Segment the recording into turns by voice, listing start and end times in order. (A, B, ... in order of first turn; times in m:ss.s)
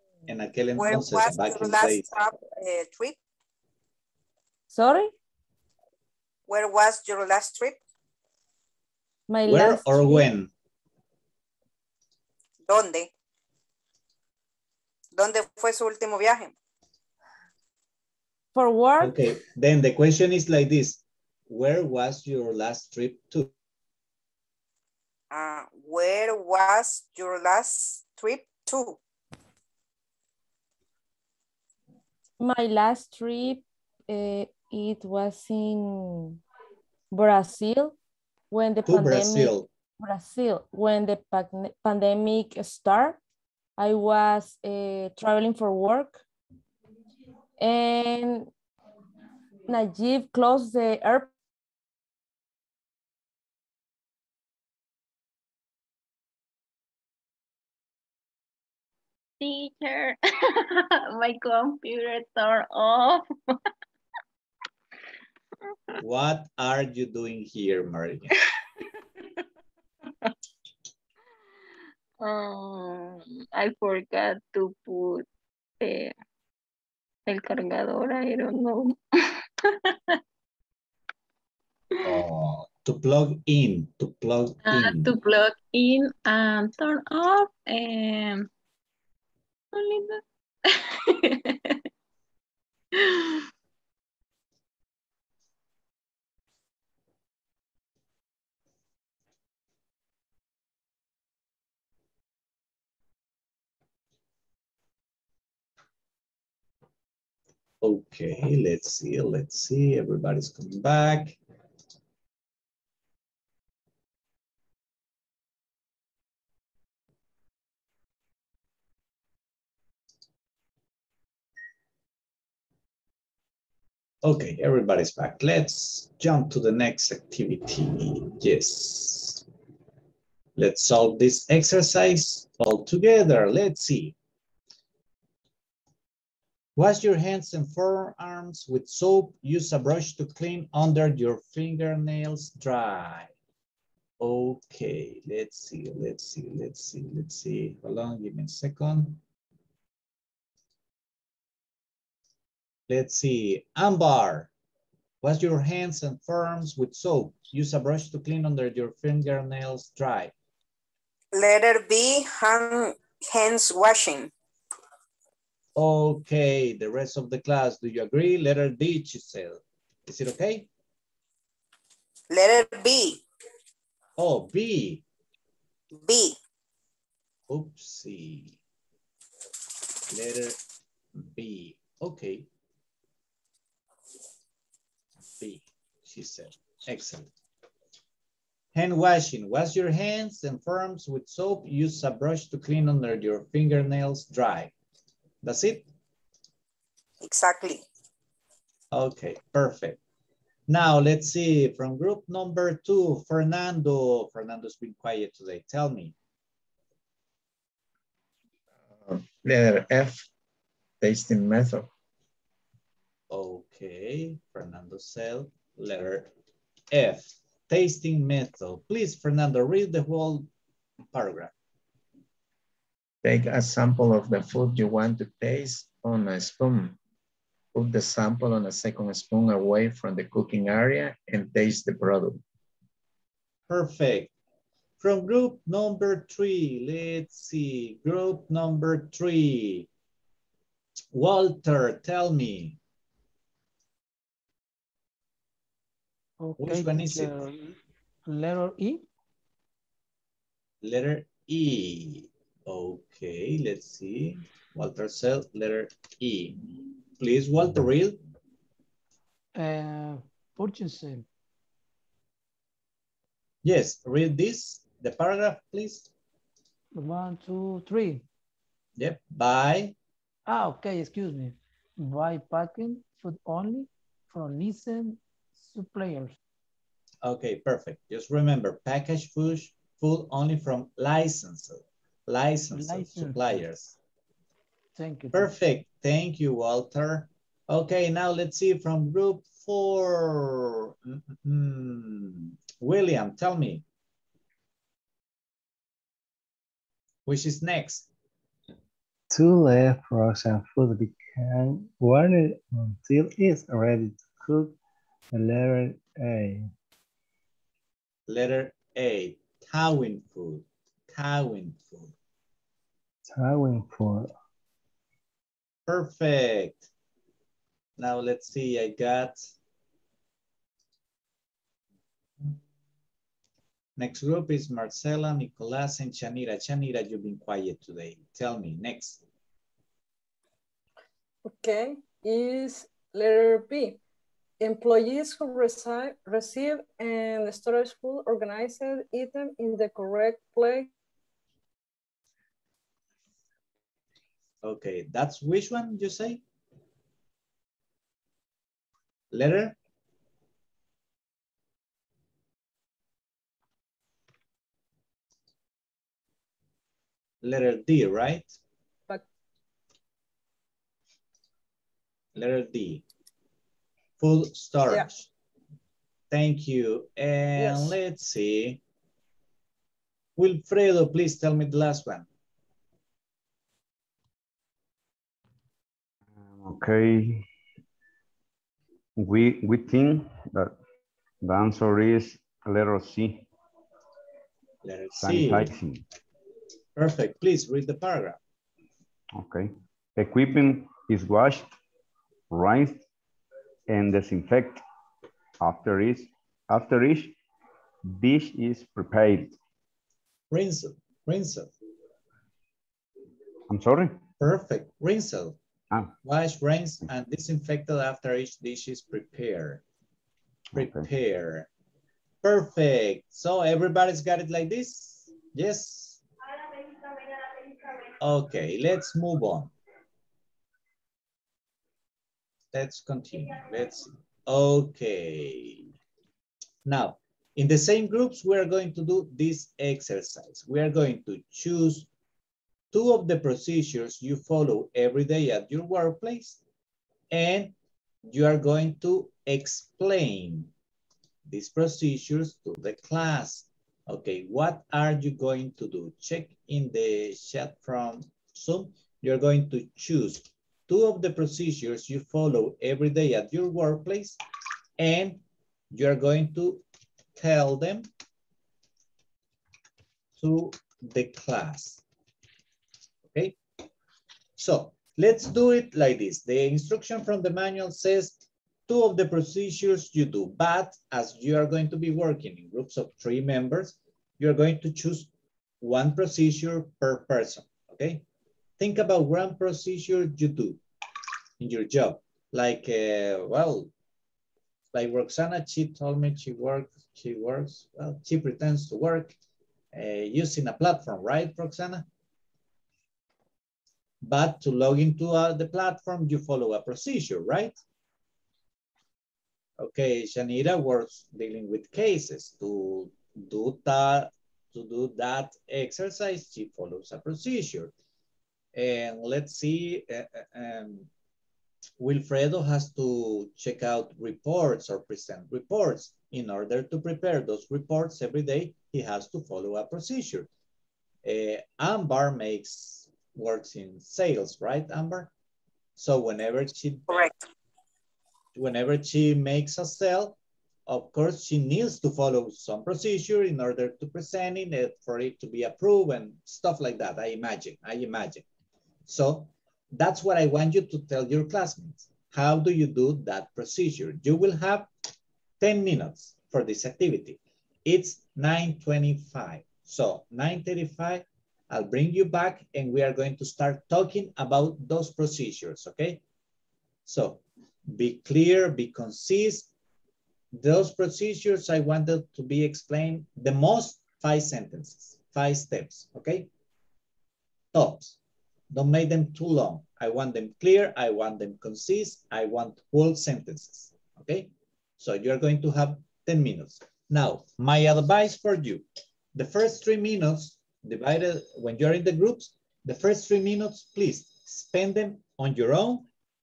0:00.3-0:02.1 A
0:00.8-0:03.2 B
0:04.7-0:05.1 C
0:06.5-0:07.8 B
0:09.3-0:10.3 C
0:09.5-0:10.5 A
0:12.6-0:13.1 B
0:15.1-0:16.5 B
0:18.6-0:19.2 C
0:19.0-0:23.5 A
0:25.3-0:29.0 B
0:32.4-0:36.4 C
0:37.1-0:38.0 C
0:38.5-0:43.2 C
0:38.8-0:39.7 A
0:43.8-0:46.2 C
0:47.6-0:48.5 C
0:49.7-0:51.3 C
0:59.4-1:03.2 D
1:06.0-1:08.3 A
1:12.2-1:15.3 D
1:15.8-1:16.1 D
1:17.3-1:19.0 D
1:19.6-1:20.0 D
1:22.0-1:25.1 A
1:24.6-1:28.5 D
1:29.7-1:31.8 D
1:33.0-1:33.4 D
1:47.8-1:51.4 A
2:04.2-2:09.4 A
2:10.6-2:14.2 A
2:16.8-2:23.3 A
2:24.2-2:29.2 A
2:32.9-2:34.5 A
2:35.2-2:40.3 A
2:41.3-2:44.3 B
2:45.8-2:50.7 A
2:52.3-2:53.2 B
2:54.2-2:55.0 A
2:56.0-2:56.4 B
2:57.5-2:58.6 A
3:00.1-3:00.6 A
3:01.2-3:02.5 A
3:05.4-3:07.3 A
3:08.7-3:14.7 A
3:15.4-3:15.9 A
3:17.2-3:17.8 B
3:18.9-3:20.0 A
3:20.7-3:26.2 A
3:28.9-3:30.3 E
3:31.0-3:31.9 E
3:33.3-3:36.3 A
3:36.9-3:40.5 A
3:41.1-3:41.5 A
3:43.2-3:47.0 E
3:47.7-3:52.4 E
3:53.7-3:54.3 A
3:55.0-3:59.9 A
4:01.1-4:02.8 A
4:06.4-4:09.0 F
4:06.6-4:07.4 A
4:10.8-4:16.6 A
4:17.2-4:18.2 A
4:19.6-4:21.3 F
4:23.6-4:26.1 A
4:26.9-4:28.2 F
4:29.0-4:30.0 A
4:30.5-4:36.4 F
4:37.2-4:44.0 A
4:42.7-4:43.6 F
4:45.0-4:45.5 F
4:45.3-4:53.8 A
4:57.3-4:58.1 A
4:59.3-5:04.8 G
5:05.3-5:06.7 G
5:08.3-5:12.1 A
5:13.3-5:14.3 G
5:15.9-5:16.9 A
5:18.0-5:19.5 A
5:24.0-5:29.2 A
5:31.4-5:34.0 H
5:34.6-5:40.9 H
5:44.6-5:46.4 A
5:49.3-5:49.8 A
5:57.4-5:58.6 A
6:02.4-6:03.0 A
6:04.2-6:05.3 A
6:06.3-6:08.8 A
6:07.6-6:08.0 H
6:10.4-6:12.3 A
6:16.4-6:17.5 I
6:19.2-6:20.8 I
6:21.4-6:23.5 I
6:24.8-6:25.8 A
6:25.2-6:26.0 I
6:27.0-6:28.4 A
6:29.3-6:31.8 I
6:32.5-6:33.0 I
6:33.9-6:34.8 I
6:35.6-6:37.4 I
6:38.1-6:39.6 I
6:40.5-6:41.7 A
6:43.7-6:44.2 I
6:44.4-6:45.6 A
6:46.2-6:49.8 A
6:50.7-6:51.7 A
6:50.8-6:51.0 I
6:52.4-6:56.2 A
6:58.2-6:59.7 A
7:02.7-7:05.9 A
7:06.8-7:12.1 A
7:12.9-7:16.6 A
7:17.3-7:17.7 A
7:18.3-7:20.7 A
7:21.5-7:34.4 A
7:35.0-7:36.8 A
7:37.4-7:38.1 A
7:40.4-7:42.0 A
7:43.3-7:43.6 A
7:44.6-7:58.2 A
7:58.8-8:00.8 A
8:01.6-8:03.9 A
8:04.9-8:09.4 A
8:09.9-8:12.0 A
8:14.2-8:17.8 A
8:19.8-8:27.9 A
8:28.8-8:31.1 A
8:32.0-8:40.5 A
8:41.2-8:45.3 A
8:46.0-8:47.2 A
8:47.1-8:47.4 B
8:48.5-8:58.4 A
8:59.1-9:04.9 A
9:05.6-9:16.2 A
9:17.1-9:19.7 A
9:20.5-9:26.5 A
9:27.7-9:28.2 A
9:28.7-9:46.1 A